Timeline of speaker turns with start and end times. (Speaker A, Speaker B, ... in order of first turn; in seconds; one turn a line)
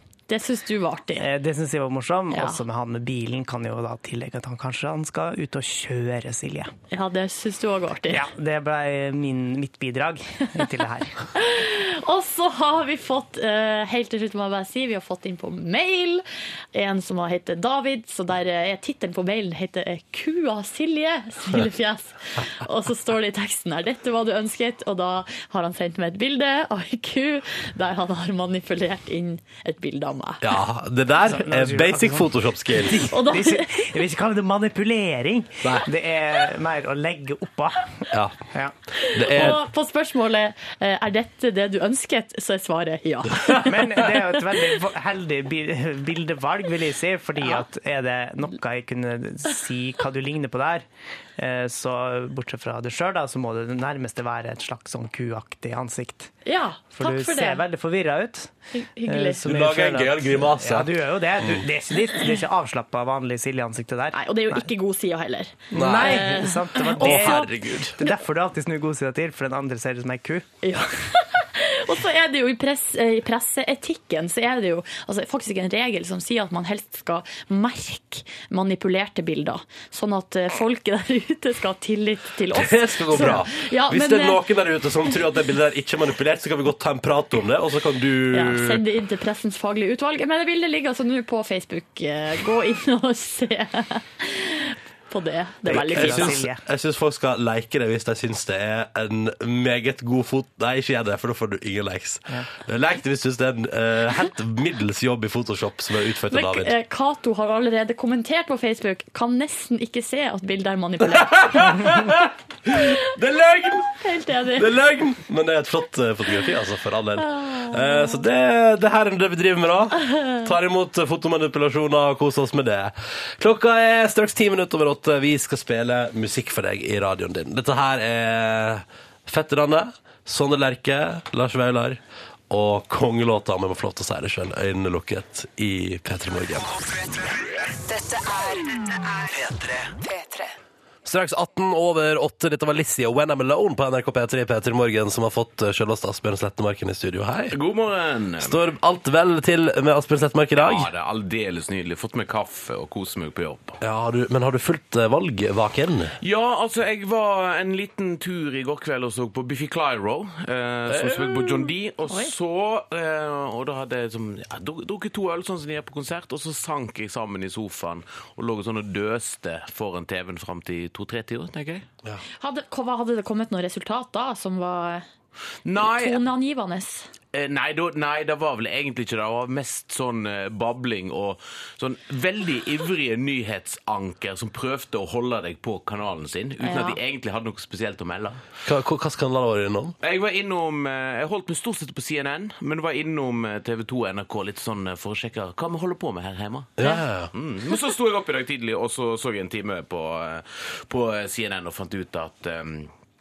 Speaker A: 0.3-1.3
Speaker B: 1.2-6.7
Speaker A: 2.3-2.6
Speaker A: 6.9-8.2
Speaker B: 8.1-11.1
Speaker A: 11.3-30.5
Speaker C: 30.4-33.1
Speaker B: 31.3-38.7
Speaker A: 33.1-33.9
Speaker C: 38.1-38.4
Speaker A: 39.0-43.8
Speaker C: 39.1-39.6
Speaker B: 43.6-50.9
Speaker B: 51.4-56.3
Speaker A: 56.5-57.6
Speaker B: 56.9-58.5
Speaker A: 58.7-59.4
Speaker B: 59.1-64.7
Speaker C: 59.4-61.6
Speaker A: 64.1-67.5
Speaker B: 65.7-70.5
Speaker C: 65.7-66.3
Speaker C: 66.9-68.0
Speaker A: 70.6-84.4
Speaker C: 82.5-88.8
Speaker A: 88.3-96.4
Speaker B: 95.7-96.6
Speaker C: 95.7-106.8
Speaker A: 106.3-111.9
Speaker C: 111.2-114.0
Speaker A: 114.0-114.8
Speaker C: 114.5-136.7
Speaker A: 117.3-118.1
Speaker D: 137.2-140.5
Speaker C: 141.1-147.6
Speaker E: 147.5-148.6
Speaker C: 148.4-150.9
Speaker E: 150.6-153.8
Speaker C: 153.8-156.2
Speaker E: 156.2-171.9
Speaker C: 160.9-161.7
Speaker A: 162.1-162.3
Speaker A: 172.4-175.1
Speaker E: 175.7-176.2
Speaker A: 175.8-177.1
Speaker E: 177.3-188.4
Speaker A: 186.6-187.0
Speaker C: 188.7-190.0
Speaker E: 190.0-202.9
Speaker C: 196.8-197.3